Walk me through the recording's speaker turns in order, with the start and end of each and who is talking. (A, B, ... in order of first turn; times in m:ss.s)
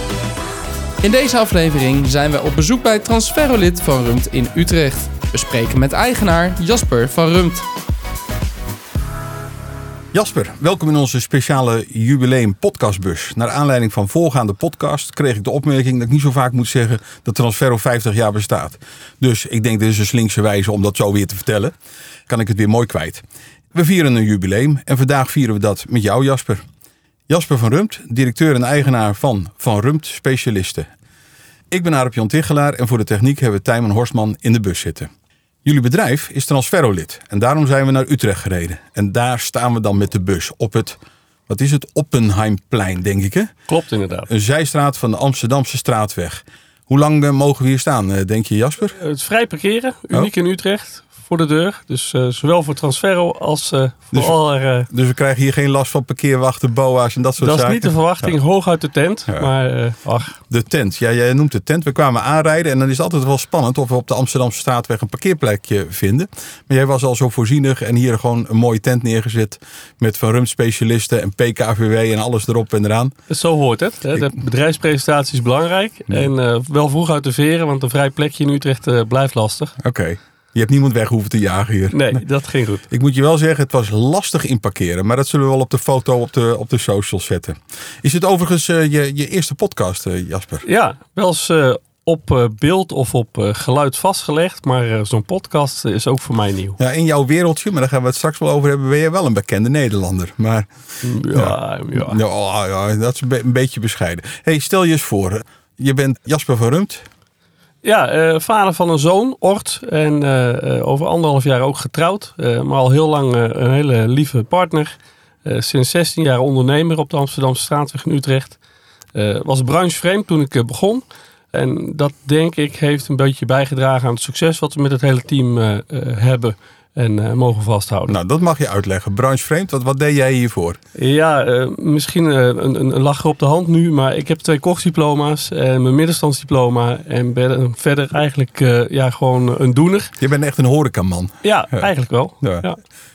0:01.0-0:07.6 A
0:10.1-0:21.7 B
0:22.3-0:26.6 B
0:27.3-0:30.9 B
0:31.7-0:35.1 B
0:35.6-0:43.5 B
0:43.7-0:44.3 C
0:44.3-0:49.0 B
0:49.0-0:54.9 C
0:54.1-0:54.4 B
0:54.9-0:58.3 B
0:57.4-1:00.4 C
1:00.5-1:13.1 B
1:13.3-1:19.7 C
1:19.8-1:22.2 B
1:21.9-1:22.8 C
1:22.9-1:30.6 B
1:30.6-1:36.8 C
1:36.8-1:40.7 B
1:41.0-1:42.2 C
1:41.3-1:47.0 B
1:47.8-1:58.6 C
1:59.1-2:08.1 C
2:08.1-2:10.8 B
2:10.9-2:20.1 C
2:20.2-2:21.9 B
2:21.4-2:22.8 C
2:22.4-2:22.7 B